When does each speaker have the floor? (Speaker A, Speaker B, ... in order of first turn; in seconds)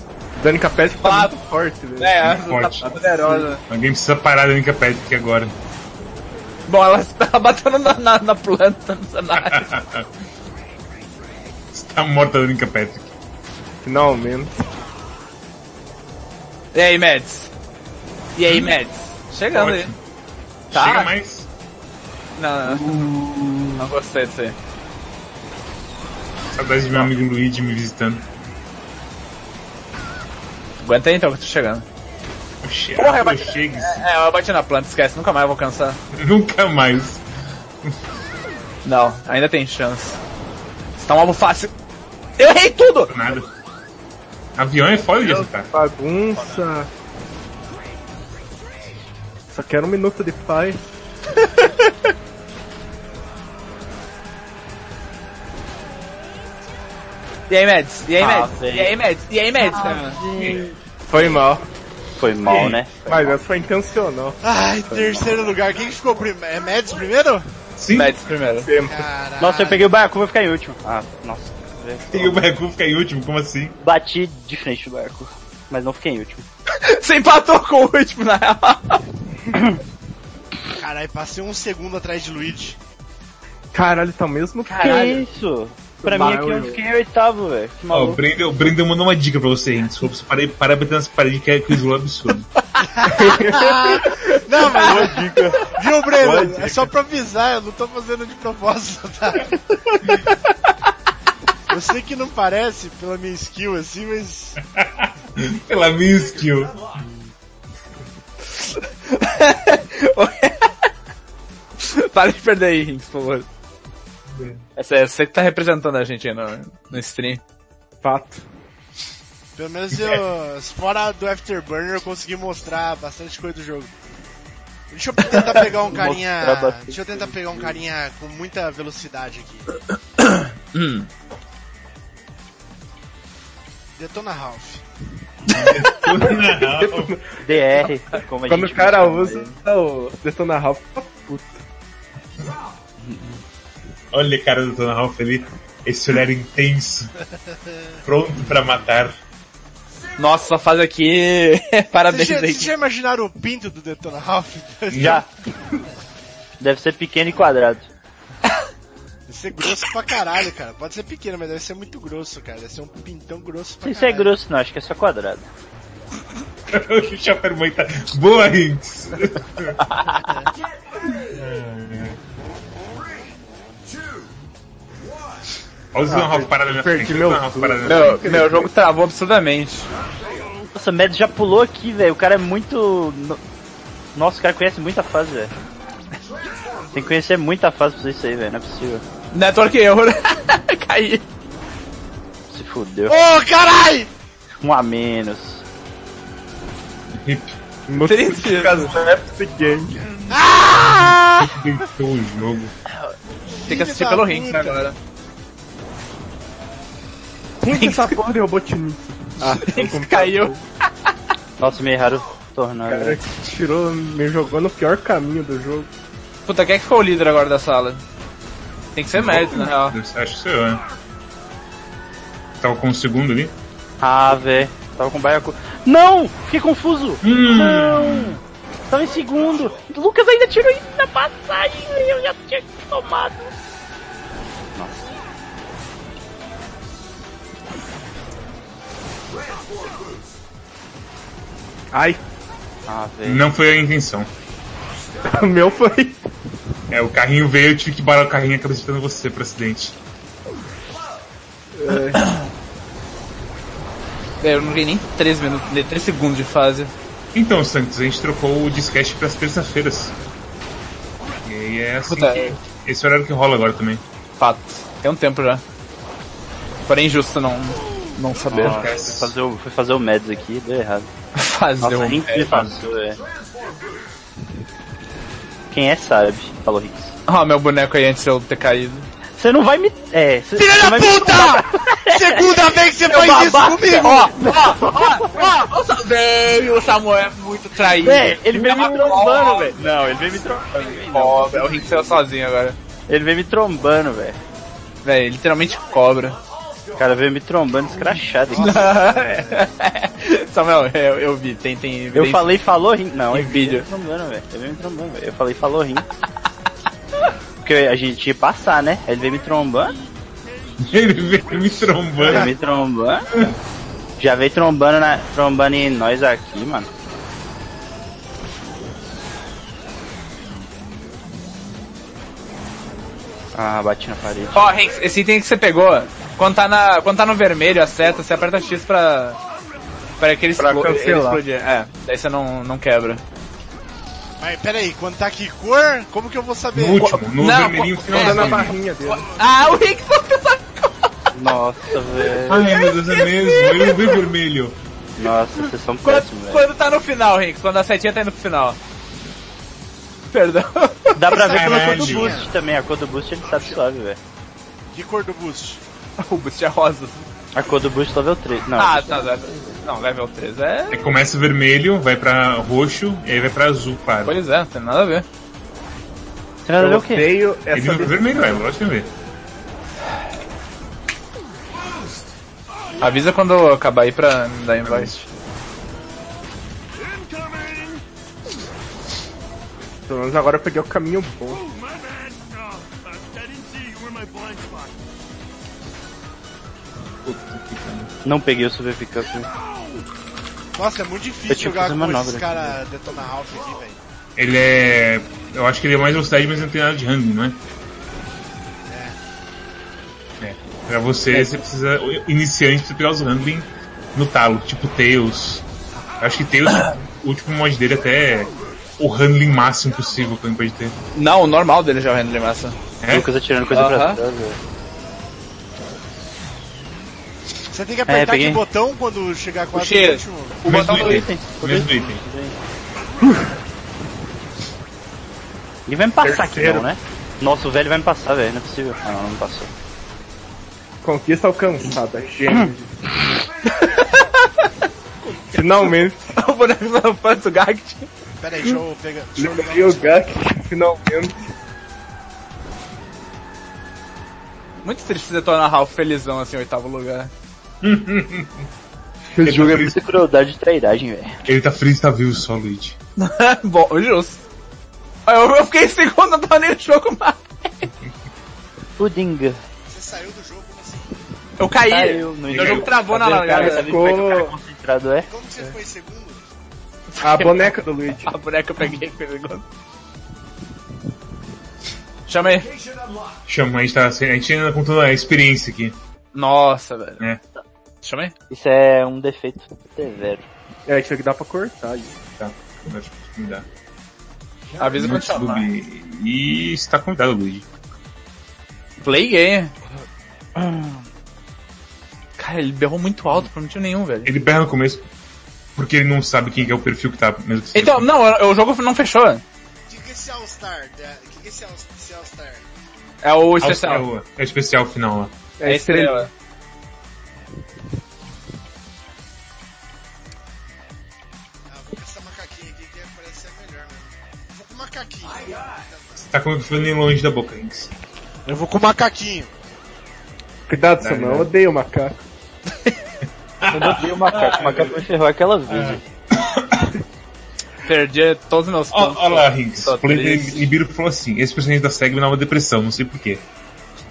Speaker A: 0.3-2.3, 2.8-3.5, 13.8-14.6, 45.2-46.9, 49.5-50.9, 61.1-61.6, 63.0-65.5, 68.6-69.1, 83.7-85.2, 86.0-86.8, 93.1-93.9, 94.8-96.9, 118.0-118.4, 136.1-137.9, 138.5-141.6, 176.1-178.7, 197.9-200.2, 207.6-210.6, 212.9-215.9, 241.9-242.2, 245.2-246.2, 251.8-252.3, 330.6-331.4, 338.1-339.3, 366.8-368.5, 380.1-381.6, 426.2-426.9, 431.0-433.0, 435.4-436.4, 439.4-441.4, 449.4-449.6, 463.3-464.5, 467.2-468.3, 480.9-482.1, 505.6-506.3, 520.7-522.2
Speaker B: 1.0-1.4, 2.0-3.6, 6.7-9.7, 16.7-17.5, 18.4-19.9, 20.7-21.1, 22.4-23.1, 23.8-24.6, 30.8-31.8, 33.0-36.0, 38.8-40.2, 41.0-41.7, 42.4-43.1, 51.4-51.9, 57.5-60.2, 67.9-68.7, 76.8-79.0, 84.7-85.2, 86.1-86.7, 93.9-95.0, 108.5-110.7, 111.8-113.5, 114.8-117.4, 130.2-131.1, 150.2-152.7, 169.8-170.2, 177.8-179.9, 189.3-191.2, 198.0-198.9, 203.7-204.9, 207.7-208.2, 209.6-210.6, 216.5-218.0, 218.9-219.9, 252.1-252.4, 254.4-256.9, 262.1-262.6, 264.4-265.6, 266.9-268.8, 271.4-272.7, 277.3-279.1, 283.9-289.8, 291.0-292.8, 295.0-296.4, 298.5-302.5, 303.3-303.9, 324.5-329.4, 330.2-333.2, 337.0-341.1, 342.7-344.2, 346.0-348.8, 350.3-351.2, 356.2-357.2, 358.8-361.0, 364.2-365.2, 373.0-375.2, 411.1-412.8, 413.7-414.2, 419.7-421.2, 433.7-434.7, 435.2-438.1, 444.8-447.3, 453.2-454.4, 455.2-457.9, 461.6-463.9, 467.1-469.6, 472.3-472.7, 476.3-477.2, 478.0-478.3, 484.8-485.7, 489.0-489.7, 492.4-494.3, 497.7-499.4, 503.2-504.0, 505.6-506.3, 527.8-530.7
Speaker C: 2.2-2.9, 3.7-5.5, 9.3-10.1, 11.7-13.1, 18.4-18.7, 19.5-19.9, 20.7-21.5, 22.6-23.8, 26.5-28.2, 32.6-34.0, 36.1-37.2, 43.1-43.5, 44.5-45.7, 60.4-60.6, 62.5-62.8, 67.8-68.2, 72.1-73.8, 87.9-92.5, 104.7-106.8, 114.3-114.6, 135.5-137.1, 144.1-147.1, 148.0-149.2, 154.9-155.2, 166.7-169.8, 171.3-172.2, 175.9-178.4, 197.1-197.6, 201.0-202.7, 219.2-220.8, 222.6-223.5, 227.2-228.4, 243.2-244.3, 246.9-249.9, 257.3-260.1, 261.4-264.0, 268.5-269.3, 310.8-312.5, 336.7-338.7, 342.4-344.8, 351.5-352.4, 360.9-364.4, 367.7-369.1, 374.8-375.2, 387.2-388.1, 394.4-397.6, 400.4-405.6, 406.2-410.9, 413.0-413.3, 420.6-422.2, 447.8-448.7, 449.4-450.0, 451.4-453.0, 462.5-462.9, 473.5-476.0, 482.4-483.6, 485.0-487.6, 494.2-495.0, 495.8-498.1, 503.6-505.3, 516.2-517.9, 521.0-521.5, 523.6-525.0, 525.7-526.9, 528.9-533.4
Speaker D: 58.2-59.0, 59.6-60.6, 62.2-63.4, 69.4-72.4, 73.8-76.5, 79.5-79.8, 84.8-88.2, 125.8-127.3, 137.4-139.6, 143.0-143.4, 154.9-155.3, 156.6-157.9, 163.8-165.4, 180.7-183.4, 184.1-185.5, 186.9-189.0, 192.5-193.2, 194.6-195.6, 211.6-213.2, 224.0-233.5, 234.7-235.1, 242.9-243.5, 268.5-271.1, 271.8-273.2, 275.7-277.1, 279.4-282.5, 283.0-285.5, 288.0-292.2, 293.1-294.4, 297.0-298.9, 302.1-306.1, 307.6-310.0, 312.2-313.3, 314.2-316.9, 323.5-324.7, 341.3-342.6, 345.2-346.6, 351.1-354.2, 357.5-359.6, 366.6-367.3, 388.2-389.5, 391.5-392.8, 413.1-414.6, 418.1-418.6, 420.7-422.6, 425.9-429.7, 449.4-451.4, 459.0-459.6, 461.9-465.3, 478.5-480.4, 490.6-490.9, 523.7-526.0
Speaker E: 64.4-67.4, 68.8-69.8, 80.7-82.8, 92.8-99.6, 101.7-104.6, 119.5-123.9, 124.9-129.7, 134.0-134.8, 152.1-155.2, 159.3-164.3, 193.1-194.1, 200.3-201.6, 203.7-204.9, 280.6-284.4, 298.5-299.6, 334.4-337.1, 351.3-352.5, 354.9-355.8, 390.7-394.0, 398.9-399.2, 417.7-420.6, 438.4-440.2, 459.9-461.1, 465.3-466.4, 499.9-502.6, 511.7-516.2, 518.5-519.5